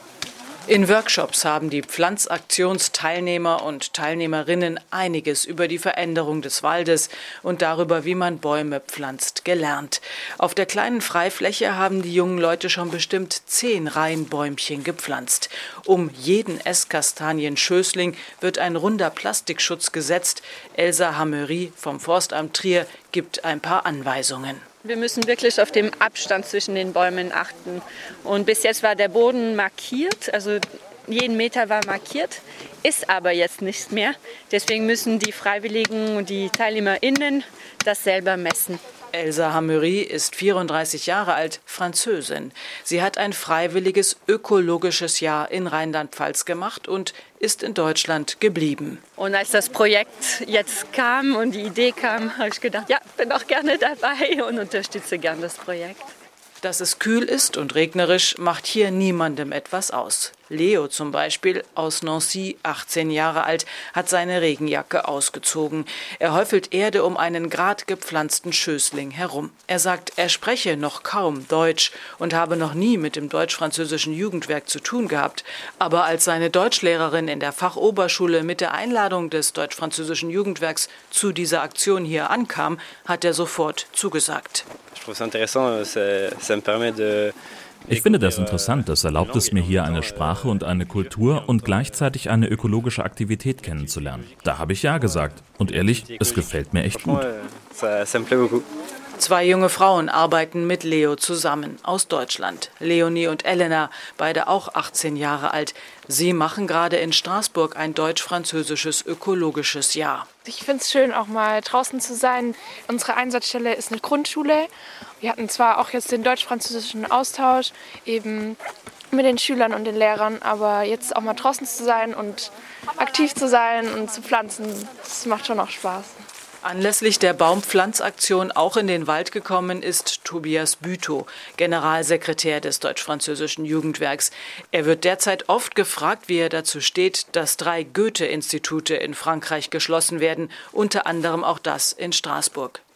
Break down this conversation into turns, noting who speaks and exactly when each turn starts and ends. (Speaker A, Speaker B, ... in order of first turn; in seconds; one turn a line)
Speaker A: 0.7-24.6
Speaker B: 24.8-38.8
Speaker A: 39.1-49.0
Speaker B: 49.2-56.0
Speaker A: 56.6-84.7
Speaker C: 84.9-87.3
Speaker C: 87.9-92.8
Speaker D: 87.9-97.3
Speaker C: 93.6-94.6
Speaker C: 95.6-98.7
Speaker A: 99.2-110.3
Speaker E: 110.4-114.7
Speaker E: 115.2-118.6
Speaker E: 119.1-126.2
Speaker A: 126.6-142.8